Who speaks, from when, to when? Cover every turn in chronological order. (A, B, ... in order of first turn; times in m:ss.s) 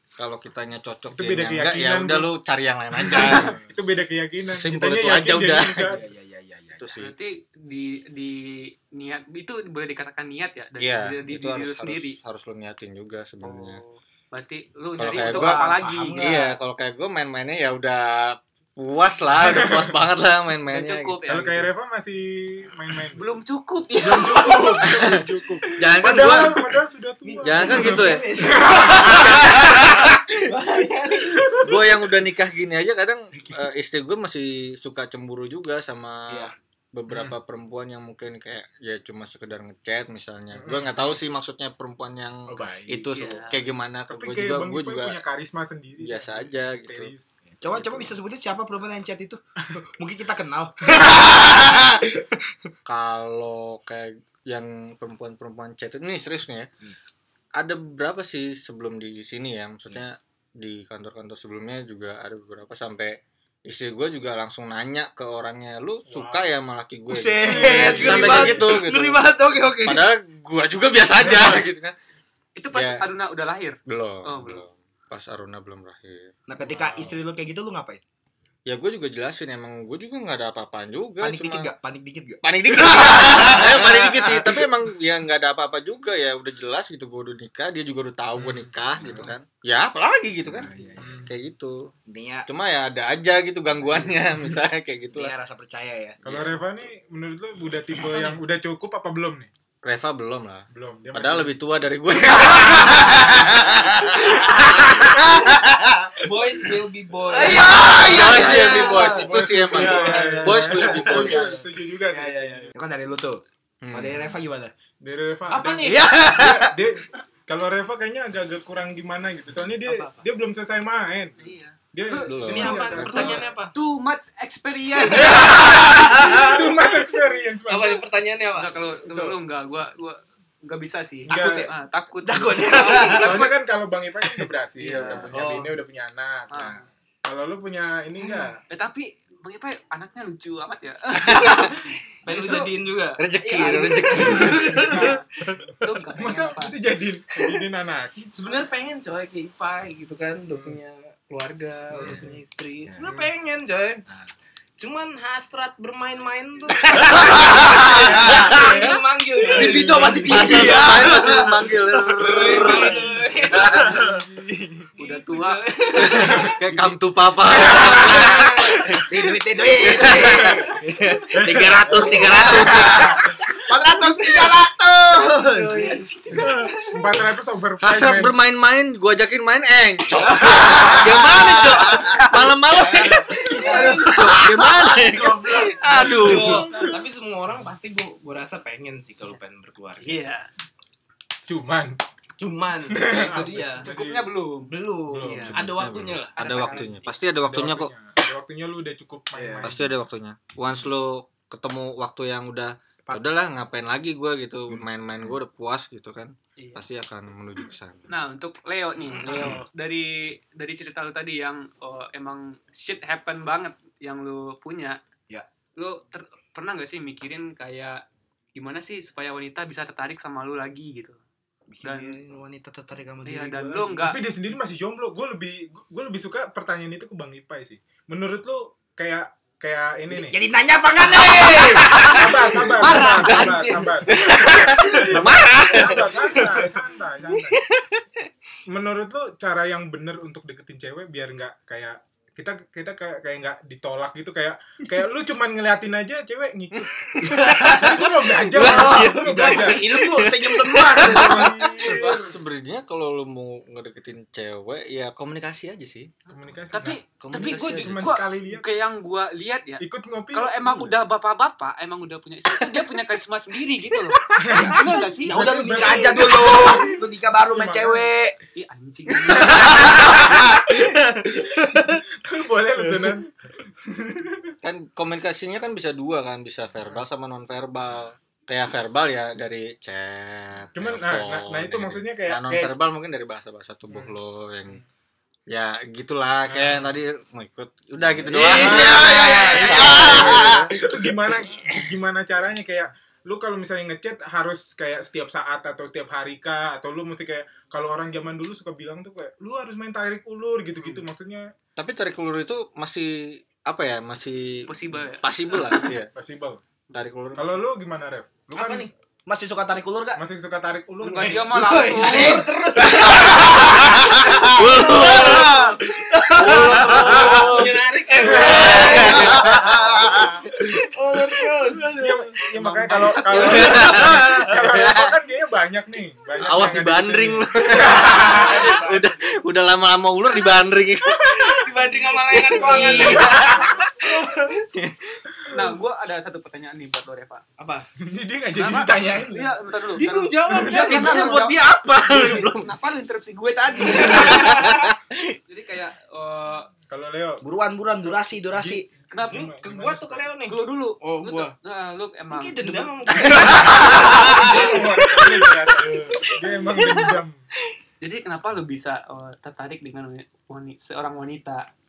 0:00.2-0:03.6 A
0:01.1-0:02.3 B
0:03.0-0:06.0 B
0:03.1-0:03.5 C
0:04.4-0:06.0 A
0:05.9-0:06.9 D
0:06.8-0:07.1 A
0:07.0-0:12.2 C
0:10.8-0:13.8 A
0:13.4-0:16.4 C
0:15.0-0:21.5 A
0:15.1-0:16.5 D
0:19.4-0:19.9 B
0:20.7-0:21.6 C
0:21.2-0:23.3 B
0:23.1-0:25.2 C
0:24.0-0:29.7 B
0:25.8-0:26.7 A
0:27.2-0:31.8 E
0:27.4-0:30.2 A
0:31.4-0:31.7 B
0:31.6-0:45.2 A
0:37.1-0:37.4 B
0:40.5-0:41.2 B
0:42.4-0:43.4 B
0:43.1-0:43.6 C
0:44.1-0:47.3 B
0:46.0-0:47.1 A
0:47.6-0:52.5 D
0:47.7-0:48.1 A
0:52.9-0:56.7 A
0:57.6-1:11.9 A
1:06.1-1:06.5 B
1:07.1-1:10.1 D
1:07.4-1:08.6 B
1:11.2-1:11.6 B
1:12.6-1:14.6 C
1:12.7-1:13.0 A
1:13.9-1:16.4 A
1:16.5-1:18.0 D
1:16.6-1:17.1 B
1:18.6-1:21.7 A
1:21.2-1:24.6 D
1:22.4-1:30.7 A
1:28.4-1:29.3 B
1:29.0-1:29.3 D
1:30.4-1:31.1 D
1:31.0-1:31.3 B
1:31.2-1:31.8 A
1:32.1-1:32.5 D
1:32.4-1:35.3 A
1:35.1-1:36.2 D
1:36.2-1:39.5 B
1:36.2-1:36.5 A
1:39.8-1:43.6 A
1:40.7-1:41.6 B
1:42.3-1:43.2 B
1:43.0-1:46.2 D
1:44.4-1:44.8 A
1:46.2-1:49.3 E
1:47.3-1:54.7 D
1:47.6-1:51.6 A
1:48.4-1:52.7 B
1:53.8-1:54.4 A
1:55.0-2:01.4 B
1:55.5-1:56.2 E
1:55.8-1:56.8 D
2:01.4-2:06.0 C
2:01.9-2:03.5 B
2:02.3-2:03.4 A
2:02.4-2:03.7 E
2:05.1-2:08.0 B
2:05.3-2:06.6 D
2:07.7-2:08.8 E
2:08.5-2:13.6 C
2:09.0-2:09.4 B
2:11.3-2:11.7 B
2:12.2-2:13.3 D
2:12.6-2:13.2 E
2:13.0-2:18.6 B
2:14.8-2:15.3 C
2:14.8-2:15.8 E
2:16.5-2:16.8 C
2:18.7-2:22.7 C
2:21.3-2:25.2 E
2:23.2-2:25.0 A
2:23.4-2:25.2 C
2:24.4-2:25.1 B
2:25.7-2:28.2 B
2:25.8-2:26.8 C
2:28.2-2:34.0 E
2:30.5-2:30.8 B
2:31.9-2:32.4 B
2:33.0-2:33.3 B
2:34.8-2:41.3 E
2:37.1-2:38.6 D
2:38.3-2:38.9 A
2:38.5-2:40.4 B
2:39.5-2:43.0 D
2:40.2-2:43.9 A
2:42.2-2:44.0 E
2:43.5-2:44.4 D
2:43.7-2:44.5 B
2:45.0-2:46.5 E
2:45.0-2:47.0 C
2:46.2-2:46.6 B
2:46.4-2:49.3 A
2:47.6-2:56.7 D
2:47.6-2:49.0 E
2:49.8-2:53.2 A
2:50.0-2:50.3 E
2:50.4-2:50.7 B
2:51.8-2:52.7 E
2:53.9-2:54.6 E
2:55.1-2:57.2 E
2:56.4-2:58.3 B
2:57.8-3:06.7 A
3:00.1-3:00.9 E
3:00.4-3:02.1 D
3:01.4-3:02.4 C
3:02.8-3:04.4 E
3:03.1-3:05.8 D
3:05.1-3:10.3 E
3:05.9-3:06.9 B
3:10.0-3:10.5 C
3:11.5-3:12.0 B
3:12.4-3:13.9 E
3:12.9-3:14.3 B
3:13.8-3:15.6 C
3:14.6-3:16.9 E
3:15.1-3:15.8 B
3:15.5-3:17.9 A
3:16.4-3:17.1 C
3:17.4-3:19.9 B
3:19.3-3:19.7 D
3:19.6-3:28.0 A
3:26.6-3:26.9 C
3:28.1-3:35.0 C
3:29.2-3:29.5 D
3:35.8-3:38.0 C
3:38.5-3:41.2 C
3:41.7-3:44.0 D
3:41.8-3:42.2 C
3:43.2-3:44.2 C
3:44.0-3:50.4 B
3:50.1-3:52.8 D
3:51.2-3:52.2 E
3:51.9-3:52.2 C
3:52.0-3:54.4 B
3:52.8-3:54.0 C
3:52.9-3:56.4 E
3:54.1-3:56.6 A
3:55.0-3:57.6 B
3:57.5-3:57.8 A
3:58.7-4:09.9 B
4:06.7-4:07.9 A
4:07.2-4:12.1 D
4:08.5-4:11.3 A
4:08.6-4:09.2 E
4:10.9-4:12.0 B
4:11.0-4:12.2 E
4:11.9-4:12.2 C
4:12.2-4:16.1 A
4:16.3-4:17.0 B
4:16.7-4:25.9 C
4:17.1-4:18.2 A
4:17.7-4:18.6 B
4:19.8-4:21.0 B
4:24.4-4:28.1 B
4:24.5-4:28.3 D
4:28.6-4:30.2 C
4:29.3-4:32.0 D
4:31.8-4:33.3 B
4:34.0-4:34.5 B
4:34.6-4:44.8 A
4:36.8-4:37.0 B
4:40.7-4:42.7 B
4:43.9-4:44.1 B
4:45.5-4:50.7 A
4:46.5-4:47.0 B
4:48.2-5:01.5 B
4:48.3-4:51.2 D
5:01.8-5:06.1 A
5:04.6-5:05.8 C
5:06.1-5:06.6 B
5:06.9-5:07.6 A
5:07.4-5:08.9 B
5:08.5-5:08.9 E
5:09.3-5:10.2 D
5:10.1-5:11.9 B
5:11.0-5:12.5 C
5:11.6-5:24.5 E
5:11.6-5:17.6 D
5:12.9-5:15.7 A
5:16.3-5:17.8 A
5:18.2-5:19.0 B
5:18.4-5:20.1 A
5:18.9-5:20.4 D
5:21.9-5:28.9 B
5:22.6-5:24.2 C
5:23.3-5:25.1 A
5:26.4-5:35.2 A
5:27.7-5:29.0 E
5:28.2-5:28.9 C
5:31.2-5:34.6 E
5:32.6-5:33.6 C
5:35.5-5:37.4 C
5:35.5-5:35.8 E
5:37.6-5:37.9 E
5:38.0-5:39.5 B
5:38.6-5:44.6 C
5:39.9-5:41.4 E
5:40.5-5:40.9 B
5:40.7-5:42.7 A
5:43.8-5:44.9 E
5:44.0-5:44.9 A
5:45.5-5:46.7 C
5:46.9-5:47.4 B
5:47.4-5:48.9 D
5:48.5-5:50.3 B
5:49.1-5:49.5 C
5:49.3-5:51.5 E
5:50.5-5:53.3 C
5:52.3-5:57.1 E
5:53.4-5:57.4 B
5:54.0-5:54.6 D
5:58.0-6:01.7 C